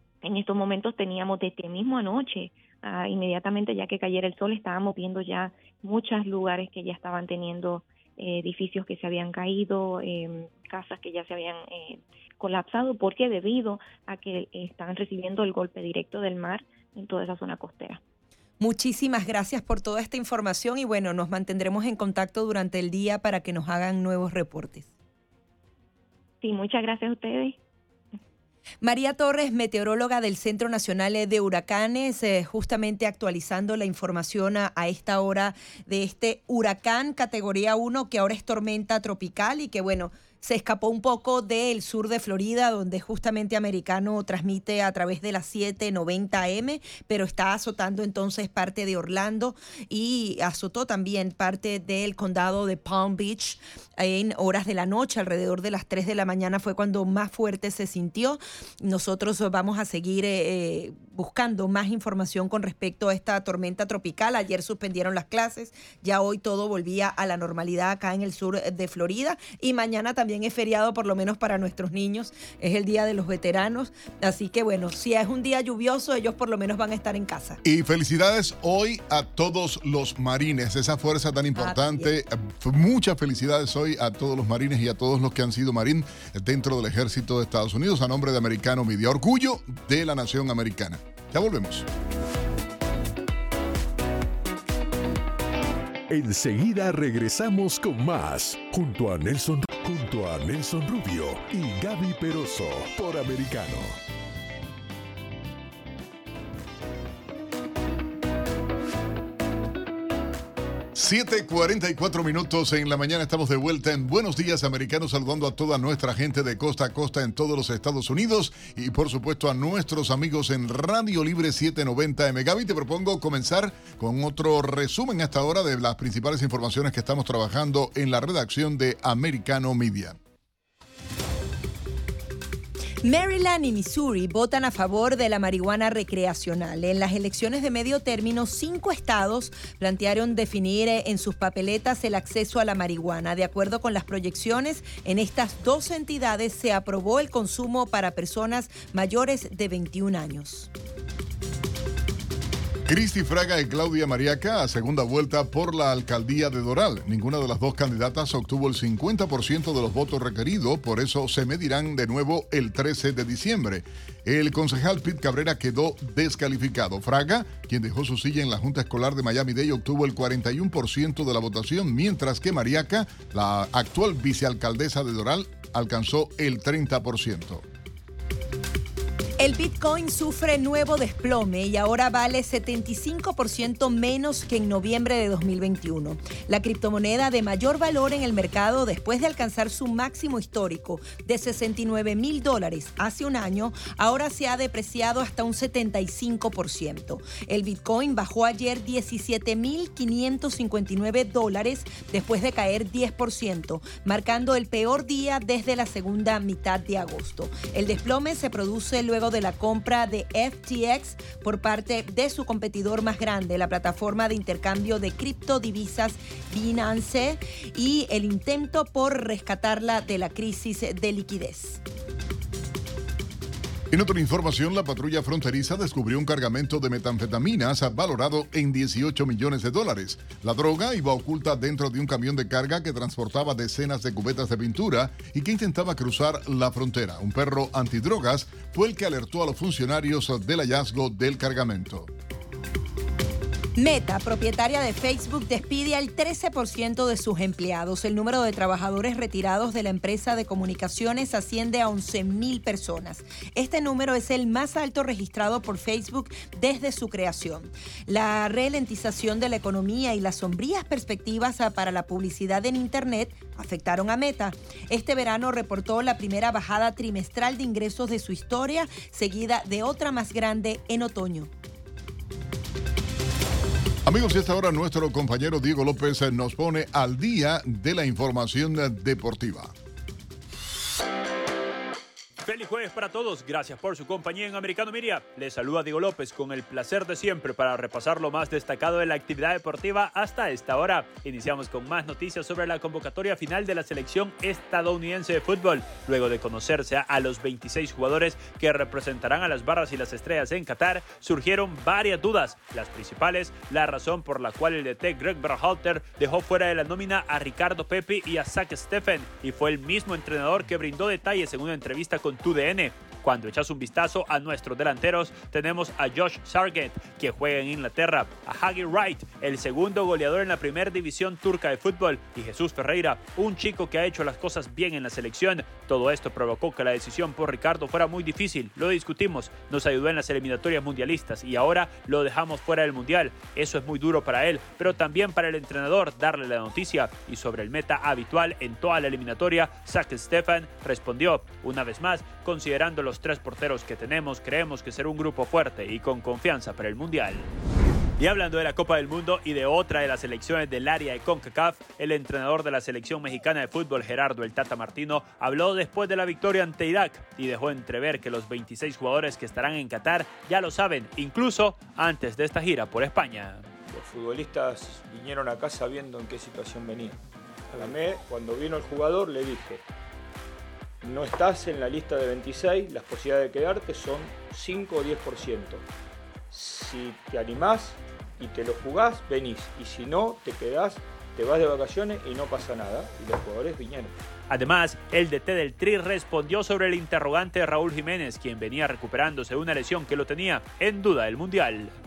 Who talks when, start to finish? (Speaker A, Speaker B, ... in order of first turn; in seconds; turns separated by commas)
Speaker A: 0.2-18.0, Speaker B: 18.6-24.9, Speaker A: 26.4-27.6, Speaker B: 28.8-77.6, Speaker C: 77.6-91.8, Speaker B: 81.6-82.1, Speaker D: 96.1-104.0, Speaker C: 110.9-130.2, Speaker B: 133.0-150.7, Speaker C: 152.9-177.6, Speaker B: 179.4-221.8, Speaker C: 223.9-242.1, Speaker B: 243.8-271.5, Speaker C: 274.1-279.7, Speaker E: 282.4-347.5, Speaker E: 348.2-363.7, Speaker F: 363.7-369.8, Speaker F: 371.0-375.9, Speaker F: 376.5-384.1, Speaker E: 384.5-391.9